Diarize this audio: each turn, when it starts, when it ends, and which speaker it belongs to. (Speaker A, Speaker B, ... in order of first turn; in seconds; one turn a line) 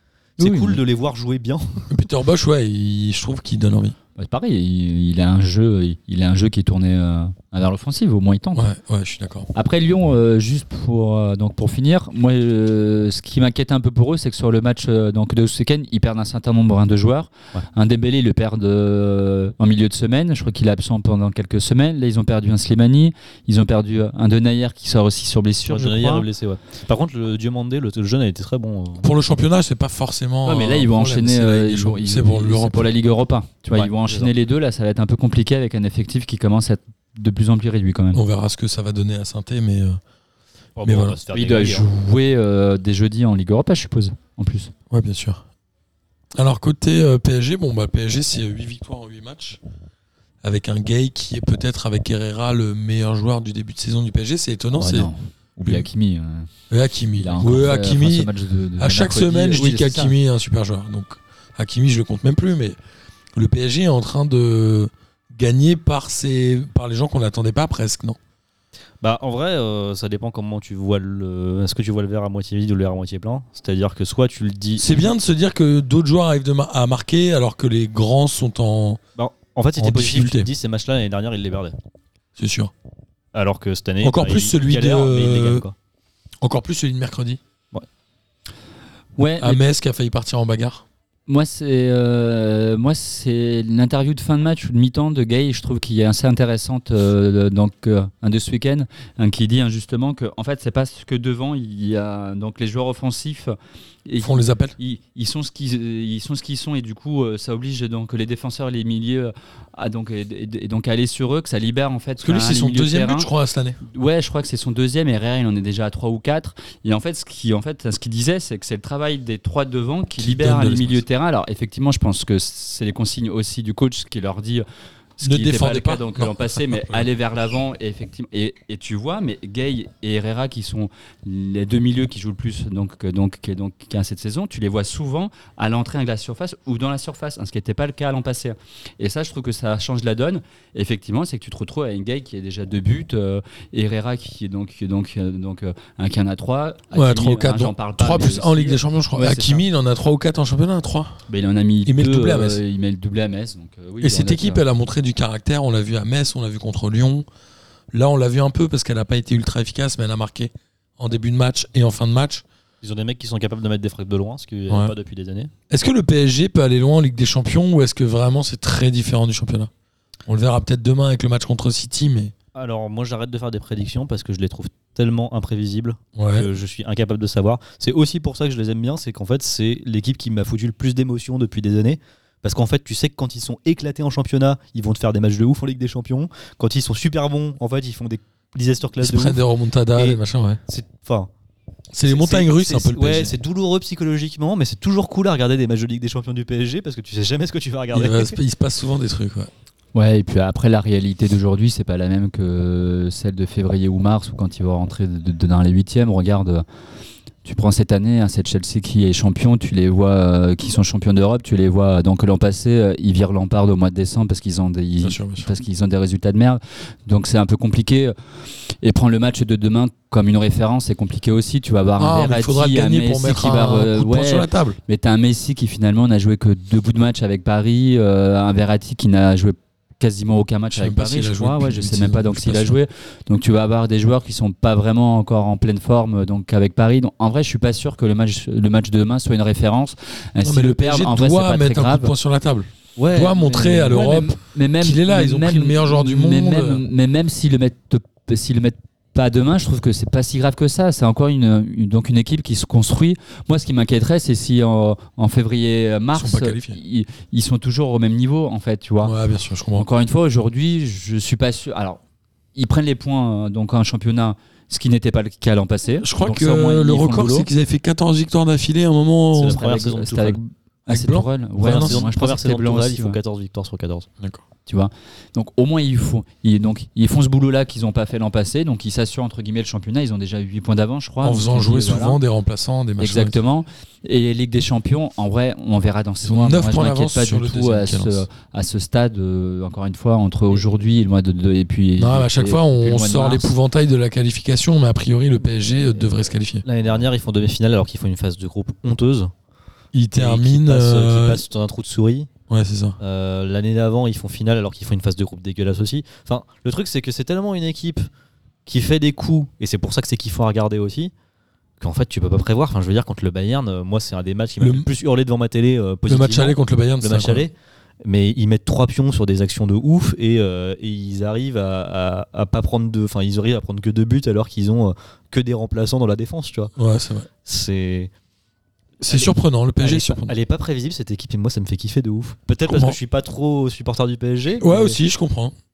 Speaker A: 0.4-1.9
Speaker B: 0.4-0.8
Speaker C: 1.9-4.0
Speaker B: 4.2-8.7
Speaker C: 8.6-9.5
Speaker B: 9.5-26.3
Speaker A: 25.7-29.1
Speaker C: 29.0-32.9
Speaker B: 30.4-38.2
Speaker A: 33.8-34.3
Speaker C: 38.1-40.0
Speaker A: 40.8-41.9
Speaker C: 40.8-41.2
Speaker B: 41.3-44.7
Speaker C: 44.9-45.4
Speaker C: 46.4-49.6
Speaker C: 50.4-55.1
Speaker B: 54.7-56.5
Speaker C: 56.7-62.8
Speaker B: 57.2-60.1
Speaker C: 63.4-68.2
Speaker A: 69.0-75.0
Speaker C: 74.8-79.0
Speaker A: 79.2-81.8
Speaker C: 79.8-80.5
Speaker C: 82.4-82.7
Speaker A: 83.3-85.7
Speaker C: 84.0-85.7
Speaker C: 86.4-87.4
Speaker B: 89.2-89.6
Speaker C: 89.4-90.8
Speaker B: 91.3-113.3
Speaker C: 104.2-104.8
Speaker C: 112.2-113.8
Speaker B: 113.8-124.7
Speaker C: 120.2-121.0
Speaker B: 125.2-149.6
Speaker C: 125.2-127.0
Speaker C: 146.9-151.2
Speaker B: 151.3-154.6
Speaker C: 151.9-152.6
Speaker C: 154.0-157.3
Speaker C: 157.9-162.4
Speaker A: 162.8-165.5
Speaker C: 165.7-169.7
Speaker C: 170.3-172.3
Speaker A: 172.6-189.4
Speaker C: 176.2-176.5
Speaker C: 189.0-190.6
Speaker A: 189.9-191.3
Speaker C: 191.9-193.4
Speaker A: 192.0-198.4
Speaker C: 197.9-199.5
Speaker B: 199.9-206.7
Speaker B: 207.4-218.1
Speaker C: 215.0-215.5
Speaker B: 218.8-242.1
Speaker C: 222.0-224.8
Speaker C: 230.7-232.8
Speaker C: 240.4-246.8
Speaker A: 243.0-243.3
Speaker B: 243.0-259.2
Speaker C: 256.1-256.8
Speaker C: 259.0-259.9
Speaker B: 259.8-262.0
Speaker B: 262.6-267.5
Speaker C: 266.0-269.6
Speaker A: 269.4-270.4
Speaker B: 269.4-273.2
Speaker C: 270.9-272.0
Speaker A: 271.6-274.1
Speaker B: 274.7-282.2
Speaker C: 281.2-283.4
Speaker B: 283.0-293.5
Speaker C: 286.2-288.3
Speaker C: 292.0-296.6
Speaker A: 296.6-299.3
Speaker C: 299.9-301.4
Speaker A: 300.1-302.3
Speaker C: 302.5-303.0
Speaker A: 303.0-308.1
Speaker A: 308.7-311.1
Speaker A: 311.8-326.7
Speaker C: 314.6-314.9
Speaker C: 316.1-317.5
Speaker C: 326.8-327.3
Speaker A: 327.4-328.1
Speaker C: 329.0-330.3
Speaker A: 329.1-335.0
Speaker C: 332.7-333.0
Speaker C: 334.6-335.5